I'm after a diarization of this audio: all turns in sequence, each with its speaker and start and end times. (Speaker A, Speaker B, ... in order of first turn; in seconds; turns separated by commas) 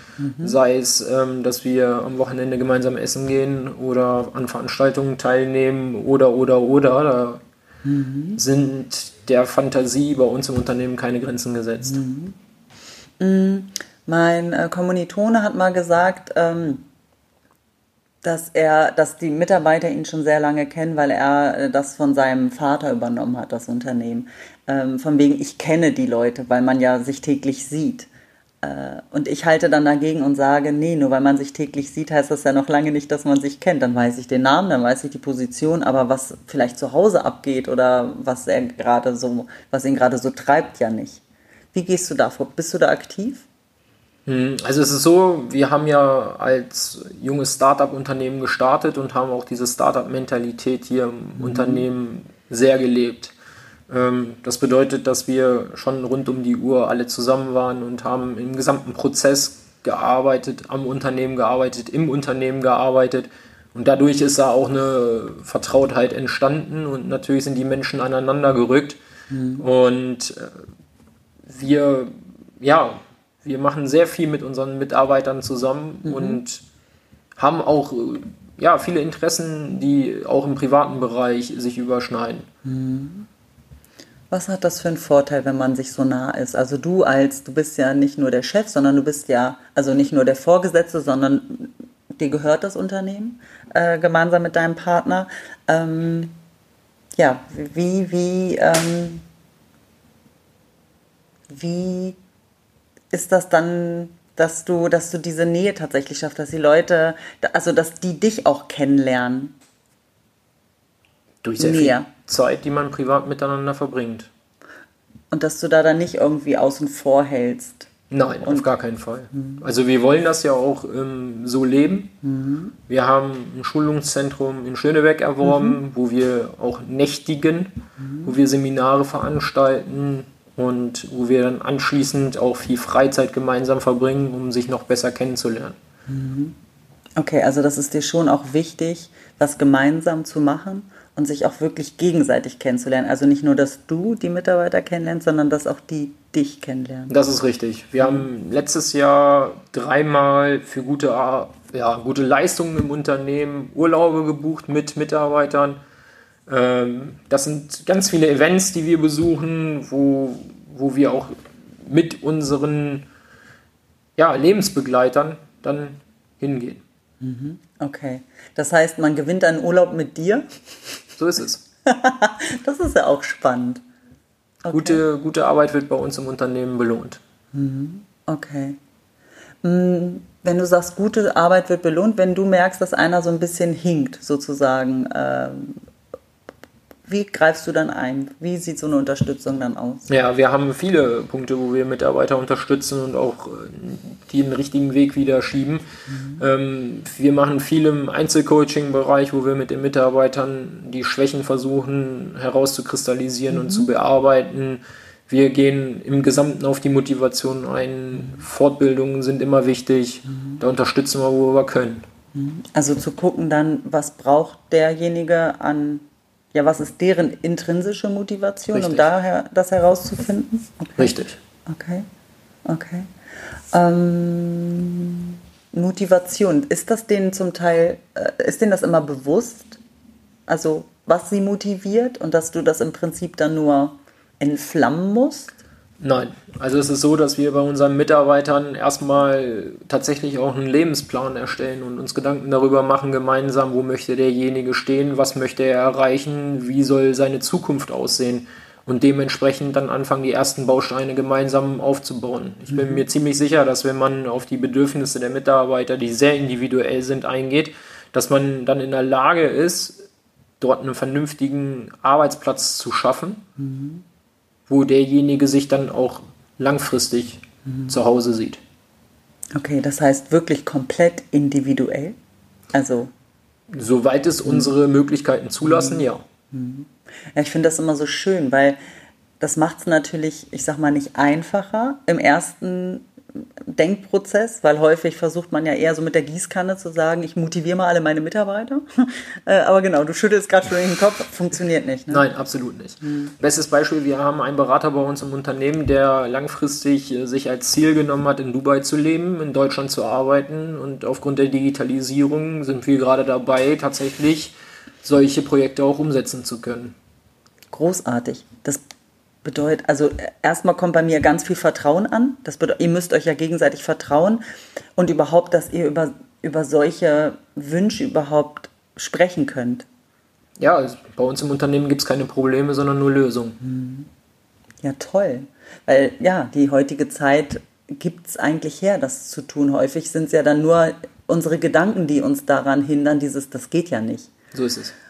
Speaker A: 0.2-0.6, Speaker B: 0.4-7.4, Speaker A: 7.8-8.4, Speaker B: 8.4-12.0, Speaker A: 11.8-12.3, Speaker A: 13.2-16.8, Speaker A: 18.2-28.1, Speaker A: 28.6-41.2, Speaker A: 41.7-43.5, Speaker B: 44.2-53.3, Speaker A: 51.4-51.8, Speaker B: 53.9-69.0, Speaker A: 69.3-69.6, Speaker B: 69.6-70.7, Speaker B: 71.5-76.6, Speaker A: 76.0-76.4, Speaker B: 77.4-82.5, Speaker A: 82.6-83.3, Speaker A: 84.3-96.3, Speaker A: 97.2-99.2, Speaker A: 101.5-102.2, Speaker A: 103.1-109.5, Speaker B: 111.4-114.3, Speaker A: 111.6-112.1, Speaker A: 115.3-117.9, Speaker B: 118.1-122.1, Speaker A: 119.3-119.6, Speaker A: 122.2-122.7, Speaker B: 122.9-135.8, Speaker A: 125.4-125.8, Speaker A: 128.0-128.3, Speaker A: 136.1-136.5, Speaker A: 137.2-147.1, Speaker B: 147.1-155.8, Speaker B: 156.5-163.1, Speaker B: 164.2-166.8, Speaker A: 167.2-170.5, Speaker B: 171.2-171.6, Speaker A: 171.8-173.8, Speaker A: 174.6-175.0, Speaker B: 174.7-177.2, Speaker A: 177.5-178.8, Speaker A: 179.6-185.8, Speaker A: 187.1-190.1, Speaker B: 190.1-195.8, Speaker A: 196.1-196.4, Speaker B: 196.4-212.1, Speaker A: 203.5-203.9, Speaker A: 210.3-210.6, Speaker A: 212.3-221.1, Speaker B: 218.7-219.0, Speaker B: 221.0-221.4, Speaker A: 221.7-222.1, Speaker A: 222.6-223.1, Speaker A: 223.7-229.8, Speaker A: 230.5-235.6, Speaker B: 236.0-260.0, Speaker A: 252.7-253.0, Speaker B: 260.6-263.4, Speaker A: 263.6-264.0, Speaker B: 264.7-268.6, Speaker A: 267.7-267.9, Speaker A: 269.5-272.1, Speaker A: 272.7-273.1, Speaker B: 273.7-276.2, Speaker A: 275.6-278.8, Speaker A: 279.4-283.1, Speaker A: 283.7-292.3, Speaker B: 292.1-306.9, Speaker A: 293.0-293.3, Speaker A: 307.7-308.8, Speaker A: 309.4-314.4, Speaker A: 314.9-319.9, Speaker B: 320.6-323.6, Speaker A: 323.6-324.1, Speaker A: 324.8-334.3, Speaker B: 334.5-334.9